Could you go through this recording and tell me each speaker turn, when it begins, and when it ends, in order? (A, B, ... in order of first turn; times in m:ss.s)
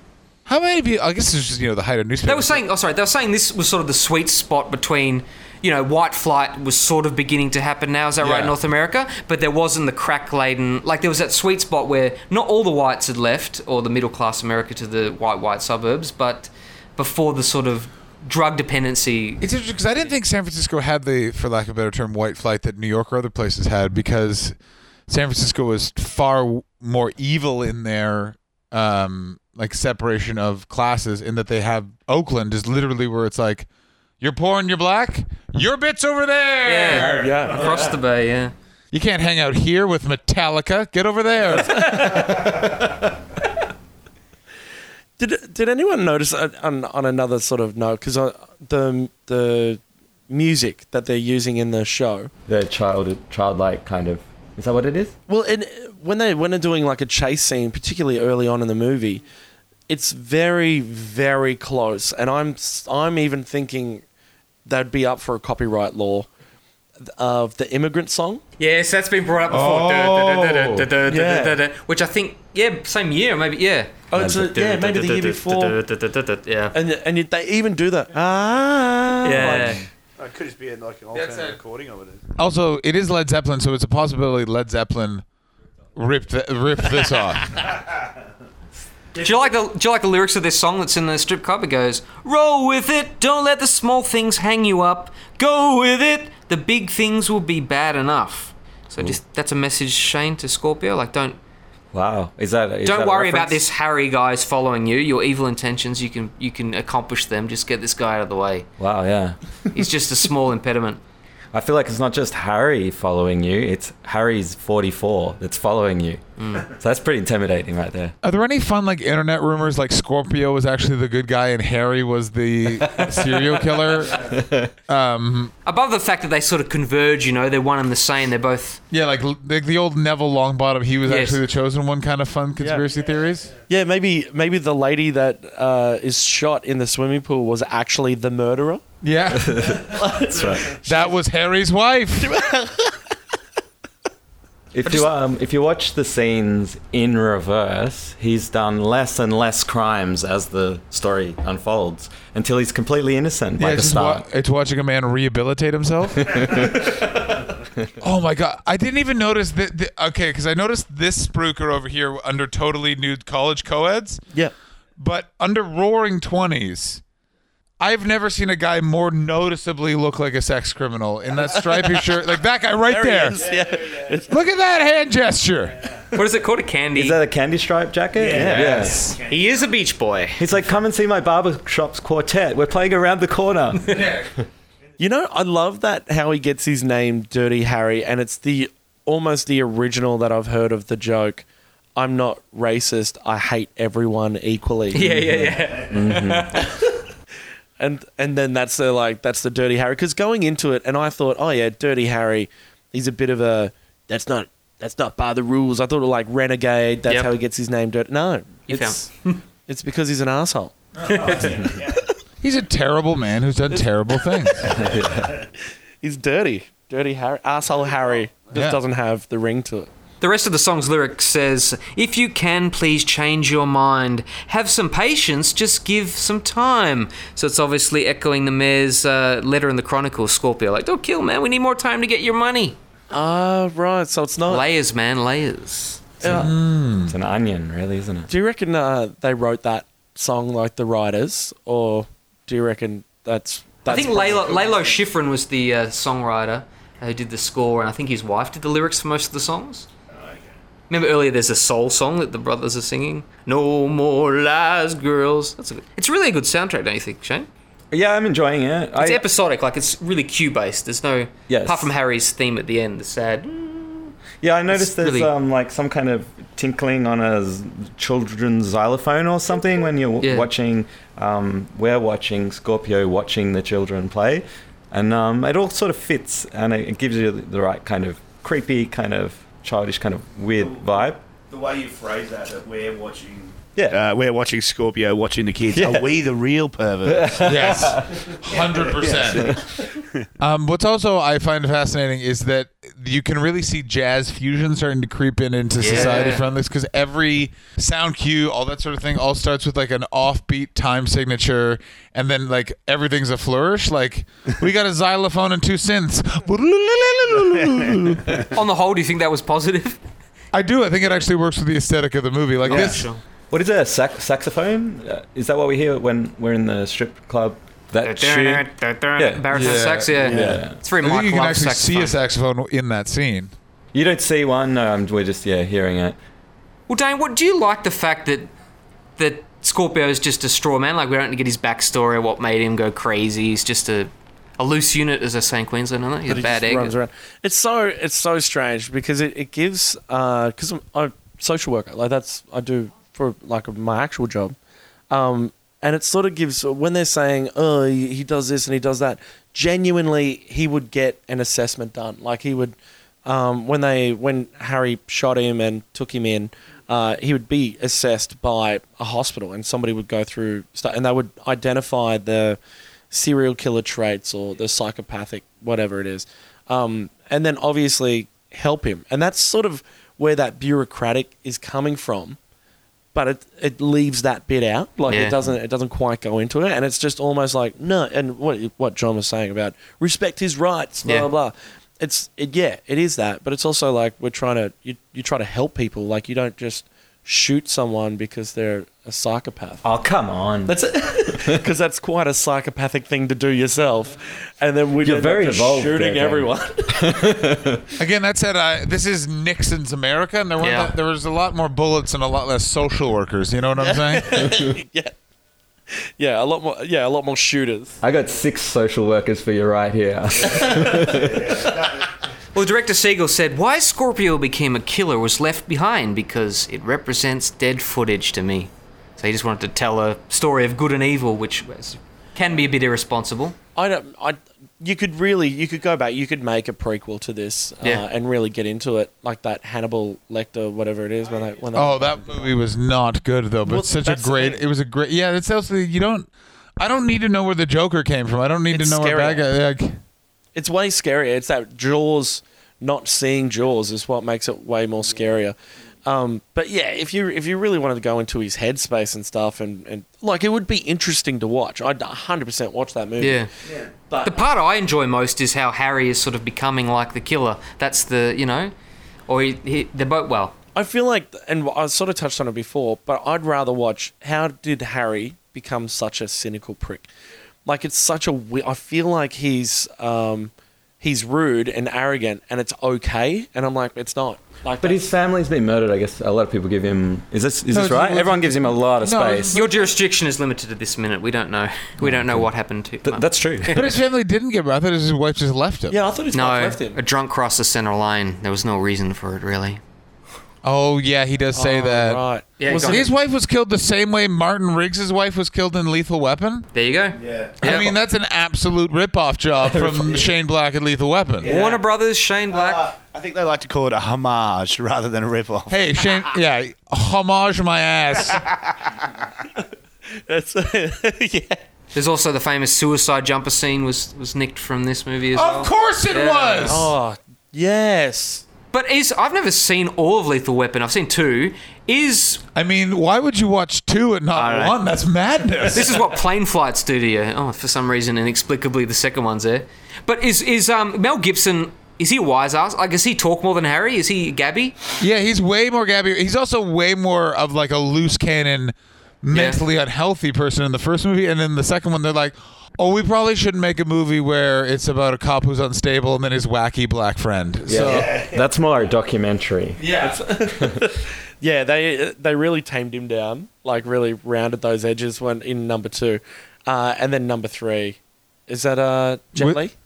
0:00.4-0:02.6 A
0:02.2-0:19.4 B
0:08.2-0:08.5 A
0:19.4-0:24.5 A
0:25.1-0:33.7 A
0:34.2-0:37.2 A
0:36.6-0:38.5 B
0:37.0-0:37.8 C
0:38.9-0:42.3 A
0:41.7-0:42.9 C
0:41.8-0:42.3 B
0:45.2-0:52.3 C
0:52.5-0:55.1 D
0:55.3-0:59.2 C
0:59.9-1:04.0 C
1:04.6-1:06.3 C
1:07.0-1:08.4 C
1:08.6-1:16.8 B
1:09.5-1:10.9 A
1:11.0-1:11.6 C
1:14.1-1:15.8 C
1:14.2-1:14.5 D
1:16.7-1:19.8 C
1:19.2-1:19.8 B
1:20.2-1:22.2 E
1:21.1-1:21.6 A
1:22.4-1:25.2 A
1:25.9-1:27.7 A
1:29.1-1:41.4 B
1:41.9-1:43.6 D
1:42.8-1:48.7 B
1:48.8-1:49.9 D
1:49.7-1:51.0 B
1:51.5-1:58.1 D
1:56.4-1:56.7 B
1:58.2-2:05.5 A
2:03.0-2:03.4 D
2:04.1-2:04.7 D
2:05.6-2:08.8 B
2:08.9-2:13.5 A
2:11.0-2:11.4 B
2:12.6-2:12.8 C
2:13.7-2:18.8 C
2:19.0-2:19.9 A
2:19.3-2:20.8 D
2:19.8-2:21.0 C
2:20.8-2:22.4 A
2:22.2-2:23.2 C
2:24.7-2:34.2 D
2:33.6-2:37.0 A
2:36.2-2:37.1 D
2:38.0-2:44.2 A
2:45.0-2:47.0 A
2:47.8-2:53.4 A
2:51.5-2:52.0 C
2:52.8-2:54.4 C
2:53.4-2:54.2 E
2:54.3-2:55.9 A
2:56.1-2:57.2 B
2:56.9-2:59.0 D
2:58.2-2:59.0 C
2:58.2-2:59.7 E
2:58.3-2:59.2 A
2:59.2-3:00.4 B
3:00.4-3:04.3 D
3:03.8-3:04.3 A
3:05.0-3:15.6 C
3:14.9-3:16.8 B
3:15.2-3:16.6 D
3:17.8-3:29.1 C
3:27.1-3:27.3 B
3:28.7-3:29.4 B
3:29.7-3:31.6 C
3:31.0-3:31.6 B
3:31.3-3:32.0 E
3:32.4-3:34.7 A
3:33.7-3:34.8 C
3:34.6-3:35.4 D
3:36.0-3:39.9 C
3:38.5-3:38.8 A
3:40.2-3:52.8 B
3:53.1-3:54.6 C
3:54.5-3:56.2 B
3:56.2-3:56.5 C
3:56.2-3:57.1 A
3:56.3-3:58.3 D
3:58.3-4:04.8 C
4:03.9-4:09.9 B
4:10.1-4:10.5 E
4:10.9-4:17.5 B
4:17.9-4:19.2 D
4:19.0-4:24.2 B
4:21.5-4:21.9 D
4:24.4-4:41.2 D
4:24.7-4:25.3 B
4:30.2-4:30.5 B
4:40.6-4:48.0 E
4:45.7-4:46.1 D
4:47.0-4:48.2 D
4:47.4-4:49.6 A
4:48.5-4:50.3 E
4:49.3-4:49.8 D
4:50.4-5:08.5 A
4:55.8-4:56.4 B
5:07.7-5:08.4 E
5:08.5-5:10.0 B
5:10.5-5:13.1 A
5:12.7-5:13.2 B
5:13.5-5:18.6 D
5:18.0-5:22.2 B
5:19.2-5:20.8 D
5:19.5-5:20.1 A
5:20.2-5:20.6 E
5:20.3-5:20.6 C
5:21.0-5:23.5 A
5:23.9-5:26.2 D
5:26.9-5:28.5 B
5:29.2-5:36.9 B
5:36.3-5:44.6 C
5:45.1-6:02.6 C
6:03.1-6:12.4 C
6:13.1-6:29.8 C
6:15.1-6:15.4 B
6:29.8-6:31.6 D
6:30.6-6:37.2 C
6:35.0-6:37.8 D
6:38.0-6:44.5 A
6:40.6-6:40.9 B
6:43.8-6:45.2 C
6:45.9-6:48.0 C
6:48.0-6:51.8 D
6:50.5-6:50.9 C
6:50.6-6:52.1 E
6:52.5-7:03.6 B
7:03.8-7:12.2 C
7:07.8-7:08.0 B
7:11.7-7:20.0 A
7:13.6-7:14.6 C
7:18.7-7:19.4 C
7:20.5-7:33.5 C
7:33.2-7:33.5 B
7:33.6-7:33.9 E
7:34.1-7:34.4 C
7:34.2-7:38.7 B
7:39.3-7:40.6 B
7:40.7-7:47.1 C
7:47.6-7:55.1 C
7:54.8-7:59.5 D
7:57.7-7:59.6 A
7:59.5-8:03.9 B
8:02.0-8:02.5 D
8:03.0-8:03.8 D
8:03.7-8:06.0 A
8:05.9-8:07.0 C
8:06.3-8:09.8 B
8:10.6-8:12.2 A
8:11.5-8:13.1 C
8:12.6-8:13.1 B
8:12.9-8:16.7 A
8:16.7-8:17.9 B
8:17.2-8:17.8 E
8:17.6-8:21.5 A
8:19.7-8:20.2 D
8:21.4-8:21.8 E
8:21.4-8:22.9 B
8:22.5-8:25.8 E
8:25.7-8:28.5 A
8:28.2-8:29.3 E
8:30.1-8:31.6 C
8:31.9-8:36.8 B
8:35.3-8:36.9 A
8:36.6-8:38.4 C
8:38.7-8:42.4 B
8:42.5-8:46.0 A
8:44.3-8:44.8 E
8:45.7-8:54.8 B
8:55.0-9:08.1 A
8:59.3-8:59.6 B
9:07.7-9:09.8 D
9:07.8-9:08.4 E
9:09.8-9:10.2 A
9:10.0-9:19.7 C
9:10.6-9:10.9 D